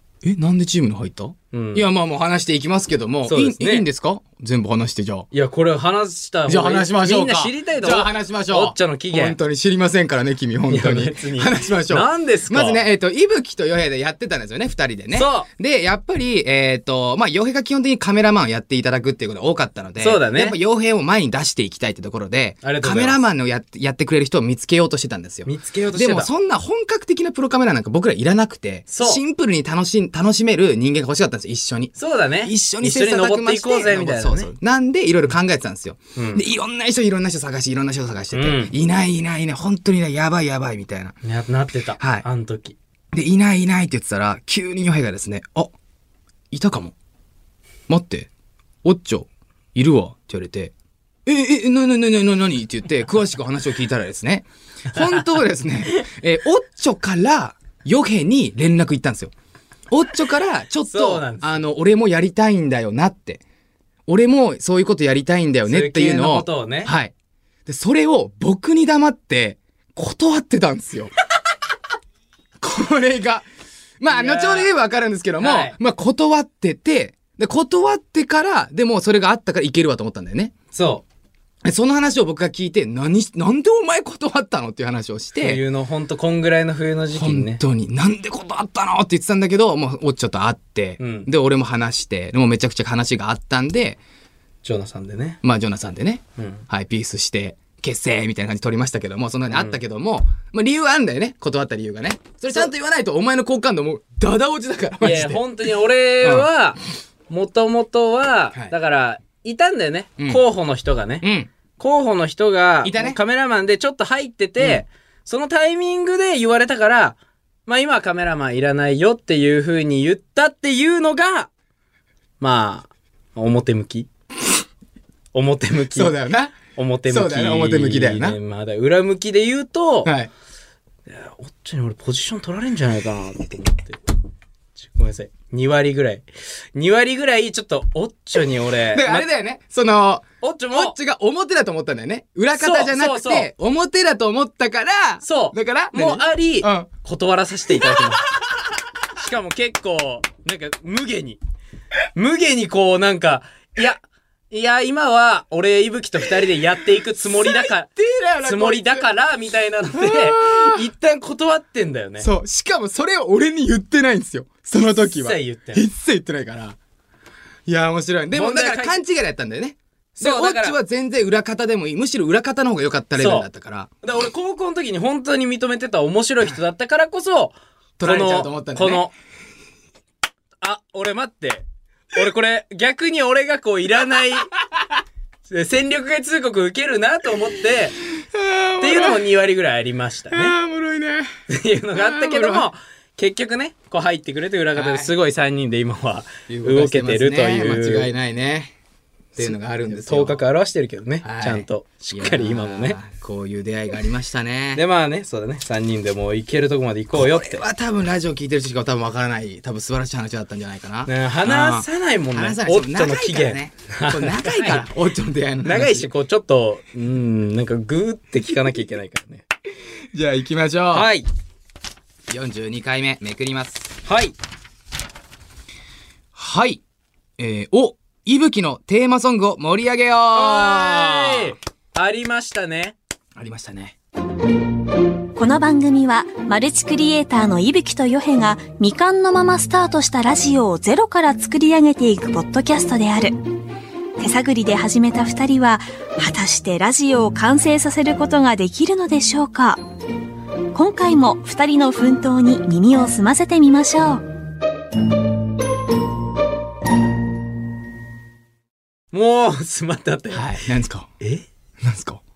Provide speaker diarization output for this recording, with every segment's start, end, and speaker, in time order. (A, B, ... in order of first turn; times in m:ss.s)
0:00.2-0:05.3 A
0:01.5-0:01.9 B
0:03.3-0:03.9 B
0:05.3-0:09.4 B
0:06.5-0:41.2 A
0:10.7-0:12.8 B
0:15.1-0:15.5 B
0:20.0-0:20.6 B
0:22.6-0:23.2 B
0:25.5-0:26.3 B
0:28.9-0:29.2 B
0:32.0-0:34.5 B
0:36.2-0:36.4 B
0:38.3-0:38.7 B
0:41.2-0:42.8 B
0:42.0-0:42.3 A
0:43.1-0:45.7 A
0:46.5-0:47.0 A
0:47.9-0:48.3 A
0:48.8-0:50.7 A
0:51.3-0:59.3 A
0:55.0-0:55.2 B
0:59.9-1:03.4 A
1:00.9-1:01.6 B
1:04.1-1:07.1 A
1:05.7-1:06.9 B
1:07.7-1:11.1 A
1:12.6-1:13.5 A
1:14.0-1:20.6 A
1:14.1-1:14.7 B
1:15.4-1:15.8 B
1:20.7-1:21.0 B
1:21.6-1:25.6 A
1:25.4-1:27.6 B
1:27.2-1:34.0 A
1:31.0-1:31.3 B
1:34.6-1:35.4 B
1:35.4-1:45.4 A
1:36.4-1:36.6 B
1:39.5-1:39.8 B
1:45.0-1:51.2 B
1:46.2-1:46.5 A
1:51.2-1:51.5 A
1:51.8-2:01.5 B
1:52.8-1:53.2 A
2:02.4-2:04.1 B
2:05.3-2:06.2 B
2:05.9-2:08.4 A
2:06.7-2:10.1 B
2:10.0-2:10.3 A
2:11.1-2:14.0 B
2:14.8-2:19.3 B
2:18.9-2:26.9 A
2:20.4-2:21.0 B
2:22.6-2:23.5 B
2:25.2-2:28.3 B
2:27.8-2:28.0 A
2:29.1-2:31.4 B
2:32.2-2:37.9 B
2:37.4-2:39.1 A
2:38.4-2:42.3 B
2:39.9-2:40.8 A
2:42.2-2:46.8 A
2:45.0-2:45.8 B
2:47.7-2:53.9 A
2:48.3-2:49.0 B
2:50.2-2:50.8 B
2:53.2-2:53.5 B
2:54.0-2:59.1 B
2:58.0-2:59.1 A
3:00.6-3:04.5 B
3:05.5-3:08.0 B
3:08.3-3:09.2 A
3:08.8-3:10.6 B
3:10.3-3:11.3 A
3:11.5-3:18.1 B
3:12.0-3:12.7 A
3:14.8-3:15.1 A
3:16.5-3:18.7 A
3:19.4-3:20.4 A
3:19.4-3:23.0 B
3:21.2-3:24.8 A
3:24.8-3:27.6 B
3:27.1-3:36.1 A
3:31.1-3:34.9 B
3:35.6-3:39.4 B
3:40.1-3:41.1 A
3:40.9-3:41.3 B
3:42.3-3:44.0 A
3:44.0-3:44.4 B
3:46.4-3:46.8 A
3:47.4-3:51.6 A
3:50.3-3:53.0 B
3:53.4-3:54.0 A
3:55.4-4:03.4 C
4:04.2-4:09.8 C
4:10.8-4:14.2 C
4:19.1-4:20.5 B
4:20.3-4:21.1 A
4:21.2-4:21.5 B
4:21.8-4:22.2 A